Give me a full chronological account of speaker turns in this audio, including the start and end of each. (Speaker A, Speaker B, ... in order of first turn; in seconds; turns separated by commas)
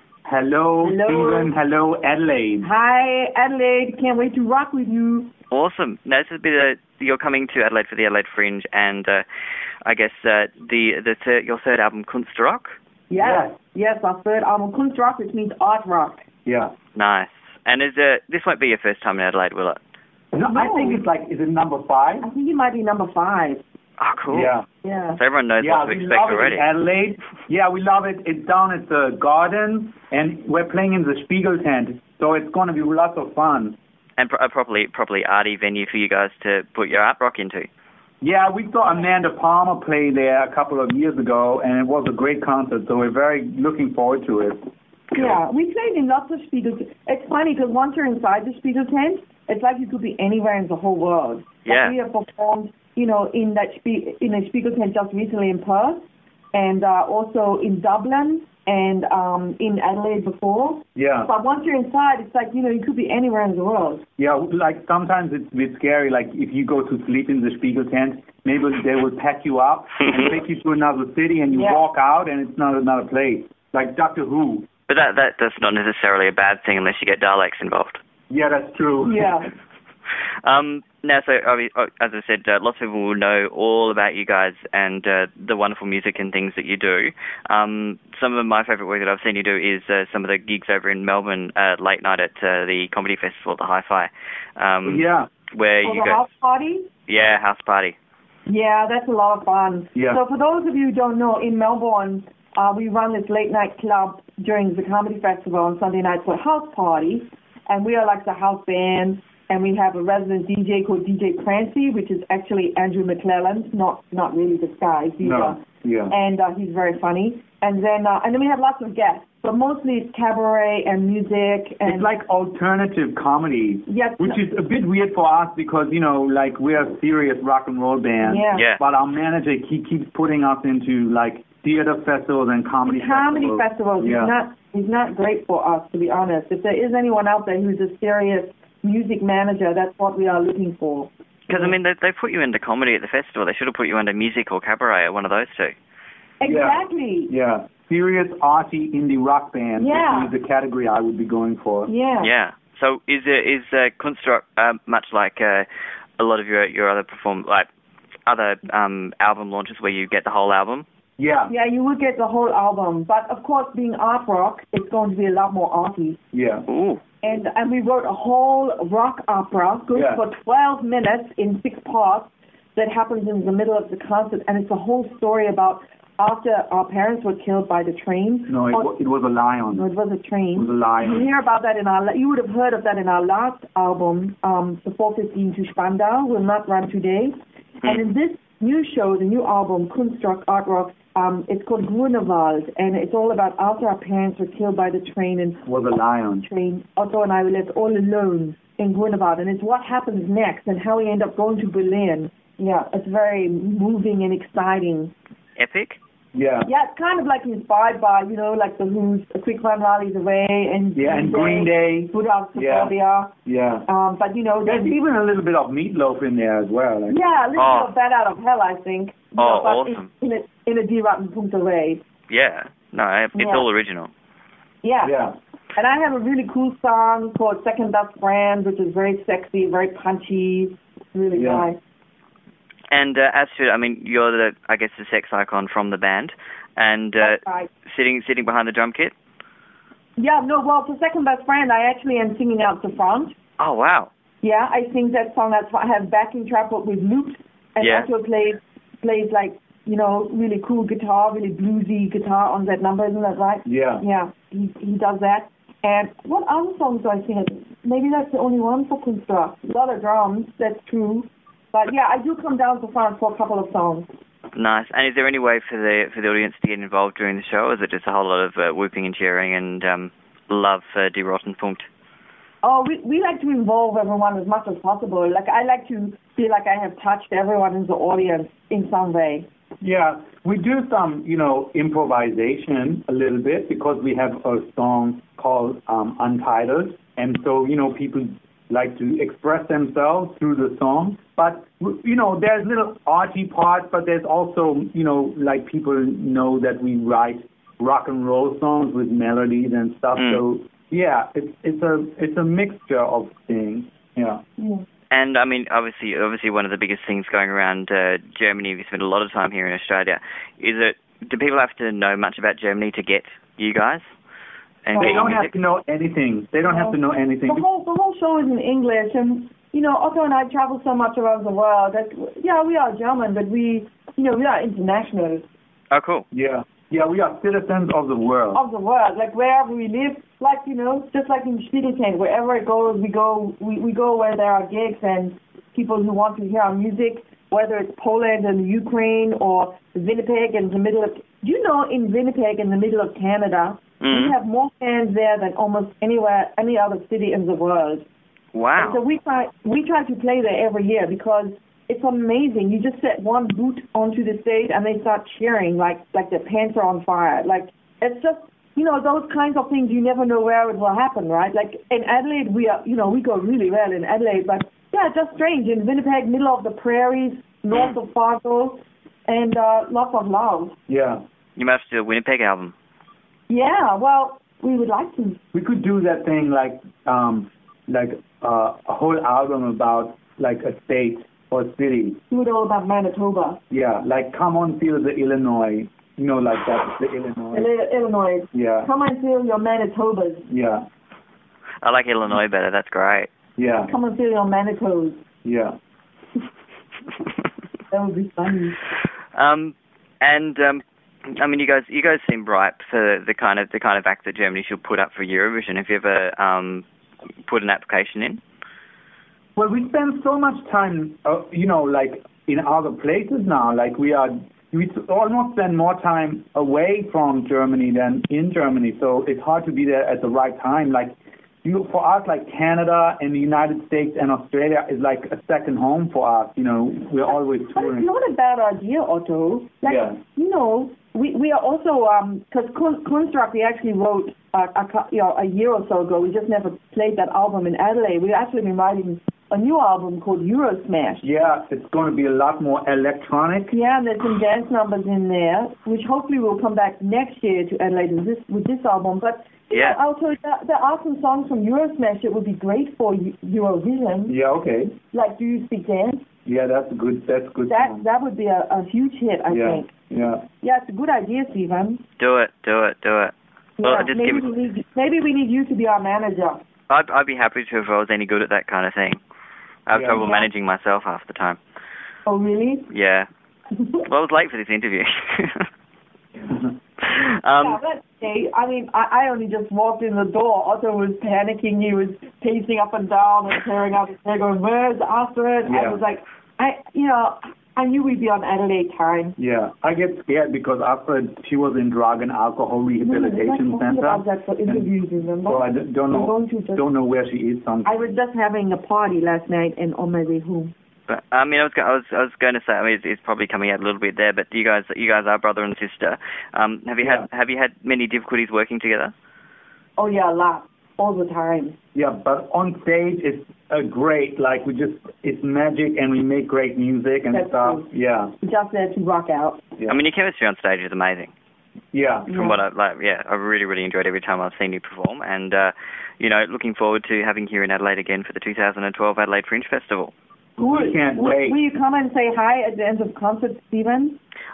Speaker A: 0.3-2.7, Speaker B: 0.8-1.5, Speaker B: 2.6-5.3, Speaker C: 5.5-9.2, Speaker C: 9.8-12.8, Speaker B: 13.1-16.2, Speaker A: 13.2-13.5, Speaker A: 16.5-16.7, Speaker C: 16.9-19.8, Speaker A: 20.3-22.3, Speaker B: 20.5-21.1, Speaker B: 22.2-23.6, Speaker C: 24.0-24.6, Speaker A: 24.3-24.7, Speaker B: 24.8-25.2, Speaker C: 25.2-26.7, Speaker A: 25.6-33.8, Speaker C: 34.2-37.7, Speaker A: 38.2-44.7, Speaker B: 45.1-64.0, Speaker C: 51.7-52.0, Speaker A: 61.0-61.3, Speaker A: 64.2-74.7, Speaker B: 71.5-71.8, Speaker C: 74.9-78.0, Speaker A: 78.3-79.4, Speaker B: 79.0-79.5, Speaker C: 80.4-96.2, Speaker A: 94.9-95.3, Speaker B: 95.8-96.9, Speaker C: 97.1-98.0, Speaker B: 98.5-122.1, Speaker A: 100.0-100.2, Speaker A: 115.2-116.1, Speaker A: 121.8-134.3, Speaker B: 123.9-124.4, Speaker B: 128.2-128.7, Speaker C: 128.5-128.8, Speaker B: 132.8-141.7, Speaker C: 141.5-145.8, Speaker B: 146.4-147.3, Speaker A: 146.4-151.9, Speaker B: 149.8-150.3, Speaker B: 151.9-152.3, Speaker C: 152.2-155.7, Speaker C: 156.2-157.7, Speaker C: 158.3-160.9, Speaker A: 161.2-161.5, Speaker B: 161.5-166.2, Speaker A: 166.3-166.7, Speaker C: 166.7-167.0, Speaker B: 167.2-178.9, Speaker A: 169.9-170.2, Speaker A: 178.5-179.9, Speaker B: 179.7-195.7, Speaker A: 180.6-181.3, Speaker A: 195.7-196.5, Speaker B: 196.4-205.1, Speaker C: 205.6-206.0, Speaker A: 206.3-206.7, Speaker B: 206.6-213.3, Speaker A: 210.9-212.9, Speaker A: 213.4-213.9, Speaker B: 213.9-215.0, Speaker A: 214.7-217.2, Speaker B: 217.1-222.0, Speaker C: 217.6-217.9, Speaker C: 219.4-220.1, Speaker C: 222.3-224.1, Speaker B: 223.3-223.7, Speaker B: 224.8-225.2, Speaker A: 225.0-225.3, Speaker B: 225.8-231.8, Speaker A: 231.3-231.7, Speaker C: 232.9-239.1, Speaker B: 237.2-237.7, Speaker B: 240.2-243.4, Speaker C: 243.6-244.1, Speaker B: 244.4-264.1, Speaker C: 247.8-248.1, Speaker A: 253.7-254.0, Speaker C: 264.6-271.9, Speaker B: 272.6-279.5, Speaker A: 279.8-304.4, Speaker C: 300.2-300.4, Speaker B: 304.6-304.8, Speaker C: 305.1-314.0, Speaker C: 314.9-315.6, Speaker A: 315.0-317.6, Speaker B: 316.6-325.5, Speaker C: 325.9-326.2, Speaker A: 326.3-328.6, Speaker B: 328.5-348.1, Speaker C: 344.0-344.4, Speaker C: 348.5-349.0, Speaker B: 348.8-370.8, Speaker A: 370.9-371.2, Speaker C: 371.6-372.7, Speaker B: 373.5-375.4, Speaker A: 375.5-382.2, Speaker B: 382.3-383.6, Speaker A: 383.7-387.7, Speaker B: 387.5-390.5, Speaker A: 388.5-388.9, Speaker A: 390.5-390.9, Speaker C: 391.8-393.3, Speaker A: 393.6-393.9, Speaker B: 393.8-395.2, Speaker A: 395.4-395.8, Speaker B: 397.9-398.8, Speaker C: 399.4-400.8, Speaker C: 401.3-406.8, Speaker C: 407.5-408.4, Speaker A: 409.6-428.1, Speaker B: 427.4-441.3, Speaker A: 429.9-430.2, Speaker A: 441.2-443.8, Speaker B: 443.7-454.4, Speaker C: 449.7-450.0, Speaker A: 454.3-455.0, Speaker B: 455.1-456.2, Speaker A: 456.5-458.0, Speaker B: 457.7-459.9, Speaker A: 459.5-460.4, Speaker B: 460.6-462.0, Speaker C: 462.2-464.5, Speaker B: 463.8-466.6, Speaker C: 466.9-469.2, Speaker C: 469.9-471.6, Speaker A: 470.0-470.3, Speaker B: 470.2-470.5, Speaker B: 472.3-472.9, Speaker C: 472.9-473.3, Speaker B: 473.8-474.0, Speaker C: 474.1-475.6, Speaker A: 476.4-476.7, Speaker C: 477.0-477.8, Speaker B: 477.6-489.4, Speaker A: 485.7-486.0, Speaker A: 489.4-494.9, Speaker B: 493.1-496.9, Speaker A: 495.5-498.0, Speaker B: 497.9-500.7, Speaker C: 501.1-509.1, Speaker B: 510.0-511.8, Speaker A: 511.9-518.3, Speaker B: 517.3-517.9, Speaker B: 518.4-519.6, Speaker C: 519.9-521.3, Speaker A: 521.9-522.5, Speaker B: 522.3-522.6, Speaker C: 522.3-530.1, Speaker A: 530.6-531.6, Speaker B: 530.6-534.2